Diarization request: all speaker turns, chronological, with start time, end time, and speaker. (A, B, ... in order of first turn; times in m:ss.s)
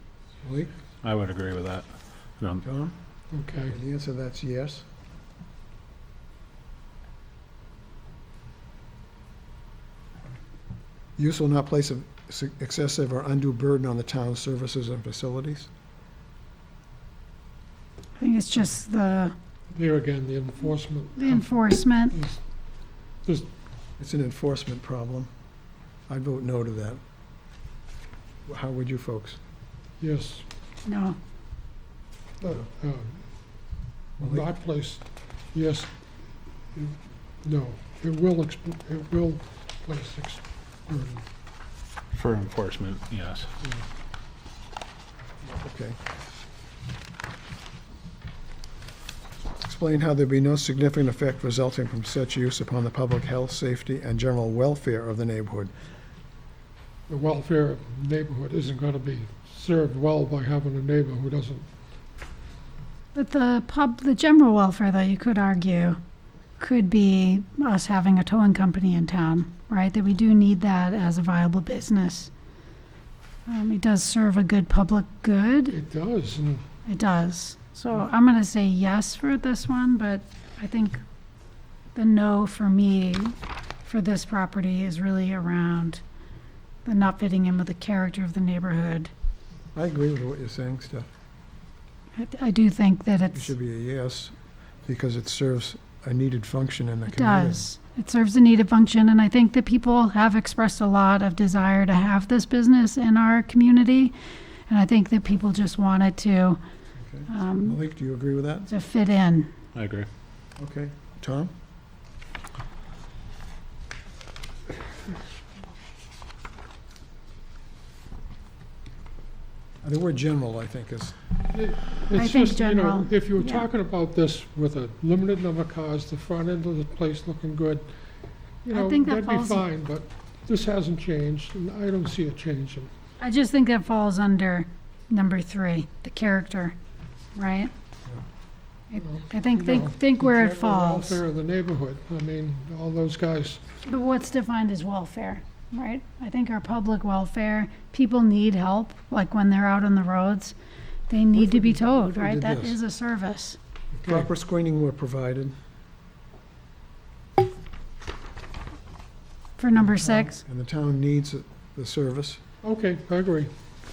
0:00.4-0:00.7 A
0:01.0-0:02.6 B
0:02.6-0:02.9 A
0:03.3-0:03.7 C
0:03.7-0:04.8 A
0:11.2-0:15.7 A
0:18.2-0:19.3 D
0:19.7-0:21.5 C
0:21.2-0:22.2 D
0:22.1-0:22.4 C
0:23.2-0:23.5 C
0:24.0-0:25.3 A
0:26.1-0:27.0 A
0:28.4-0:29.4 A
0:30.0-0:30.4 C
0:30.8-0:31.2 D
0:32.4-0:33.5 C
0:34.2-0:36.2 C
0:36.7-0:41.2 C
0:42.1-0:43.5 B
0:45.5-0:46.0 A
0:49.6-0:55.7 A
0:57.1-1:01.7 C
1:03.1-1:06.0 D
1:06.6-1:12.3 D
1:13.5-1:15.8 D
1:15.7-1:16.6 C
1:16.8-1:21.0 D
1:21.9-1:26.0 D
1:26.8-1:29.1 D
1:29.7-1:31.1 A
1:32.2-1:33.5 D
1:33.3-1:34.3 A
1:34.8-1:37.6 A
1:37.1-1:44.1 D
1:44.7-1:46.6 D
1:47.0-1:48.7 A
1:47.3-1:47.8 D
1:48.7-1:49.5 D
1:49.7-1:50.1 B
1:50.6-1:51.5 A
1:59.8-2:01.2 A
2:01.5-2:08.0 C
2:02.1-2:03.7 D
2:08.6-2:12.9 C
2:08.7-2:09.6 D
2:13.2-2:16.8 D
2:17.3-2:17.7 D
2:18.9-2:21.2 D
2:19.0-2:23.6 C
2:23.8-2:30.5 D
2:31.1-2:33.6 D
2:31.4-2:32.8 A
2:34.0-2:35.5 A
2:39.6-2:40.4 D
2:39.8-2:42.4 A
2:42.6-2:43.5 C